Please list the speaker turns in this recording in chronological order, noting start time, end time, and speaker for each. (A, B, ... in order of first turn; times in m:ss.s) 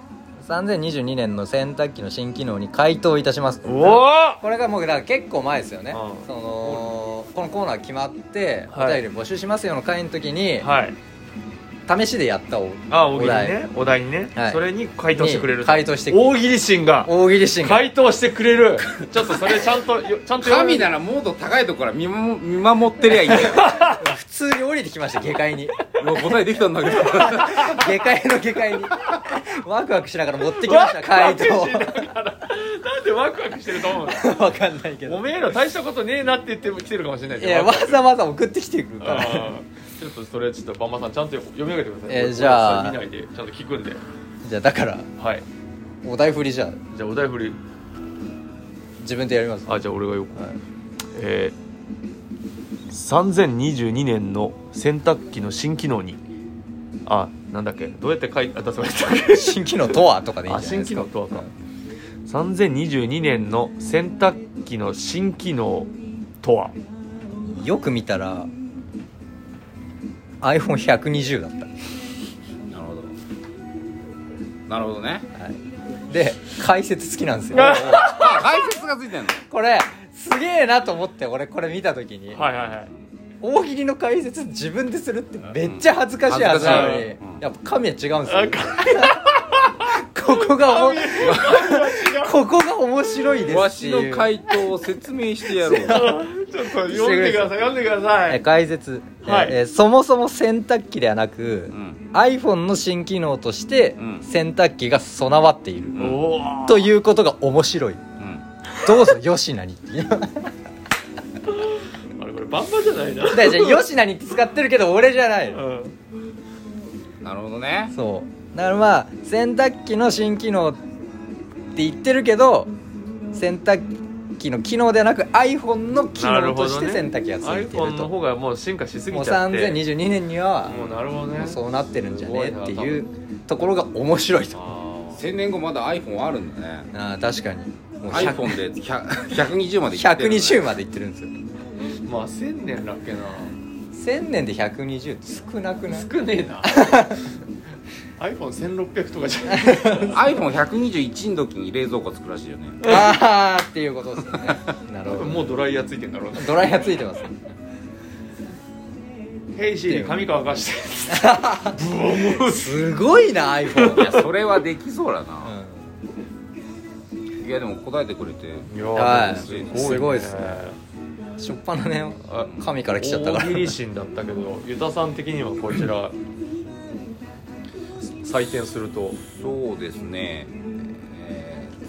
0:00.4-0:10.7 A
0:03.6-0:04.4 B
0:05.9-0:07.0 B
0:08.7-0:09.0 B
0:10.6-0:11.0 B
0:11.9-0:13.6 A
0:12.9-0:20.9 B
0:14.4-0:16.4 A
0:17.0-0:17.9 A
0:20.4-0:23.7 C
0:23.3-0:24.1 B
0:23.9-0:26.0 A
0:26.0-0:27.9 C
0:27.0-0:32.1 A
0:30.5-0:34.4 B
0:34.0-0:35.3 A
0:35.0-0:38.0 B
0:37.4-0:39.6 A
0:39.0-0:44.0 B
0:42.1-0:43.0 A
0:44.4-0:45.1 A
0:45.2-0:45.4 B
0:46.0-0:46.8 A
0:46.9-0:47.6 B
0:49.0-0:49.8 A
0:49.7-0:50.6 B
0:51.1-0:51.6 B
0:52.9-0:56.2 B
0:57.1-0:59.7 B
0:59.3-1:01.5 A
1:00.4-1:01.5 B
1:02.2-1:06.7 B
1:07.4-1:08.5 A
1:10.4-1:11.8 A
1:12.7-1:13.1 C
1:14.7-1:15.3 C
1:15.4-1:18.2 A
1:17.5-1:18.5 B
1:17.6-1:19.4 C
1:19.5-1:22.4 A
1:22.3-1:22.9 B
1:23.4-1:34.6 A
1:25.6-1:27.4 C
1:26.5-1:27.1 B
1:28.3-1:32.4 B
1:31.2-1:31.8 C
1:33.4-1:36.1 C
1:35.6-1:37.6 A
1:35.8-1:38.4 B
1:38.3-1:46.1 A
1:39.2-1:39.6 B
1:41.7-1:42.1 C
1:44.0-1:44.3 C
1:46.0-1:46.3 C
1:46.0-1:46.9 B
1:46.6-1:48.0 A
1:48.2-1:48.4 C
1:48.8-1:49.1 B
1:48.8-1:50.5 A
1:52.2-1:53.8 B
1:53.3-1:55.6 A
1:55.5-1:55.9 B
1:57.2-1:57.9 C
1:57.9-2:00.8 A
2:01.8-2:02.7 A
2:03.3-2:08.1 A
2:06.2-2:09.8 B
2:09.1-2:14.6 A
2:10.7-2:11.6 B
2:12.1-2:13.0 B
2:14.5-2:15.3 B
2:15.2-2:16.9 C
2:16.9-2:18.6 A
2:18.1-2:20.7 C
2:19.9-2:21.3 A
2:22.0-2:23.6 B
2:23.9-2:26.1 A
2:25.9-2:27.1 B
2:26.6-2:27.2 A
2:28.2-2:30.2 B
2:29.5-2:30.2 A
2:30.1-2:32.8 C
2:32.8-2:33.1 B
2:32.8-2:35.6 A
2:35.1-2:36.7 B
2:36.4-2:37.4 A
2:39.6-2:42.9 B
2:39.9-2:40.2 A
2:41.1-2:44.3 A
2:43.7-2:44.3 B
2:44.0-2:45.6 C
2:45.4-2:46.0 A
2:47.4-2:50.1 C
2:48.7-2:50.8 B
2:49.0-2:50.8 A
2:51.4-2:53.8 A
2:52.3-2:56.2 B
2:52.4-2:52.7 C
2:58.0-2:59.2 B
2:59.2-3:01.8 C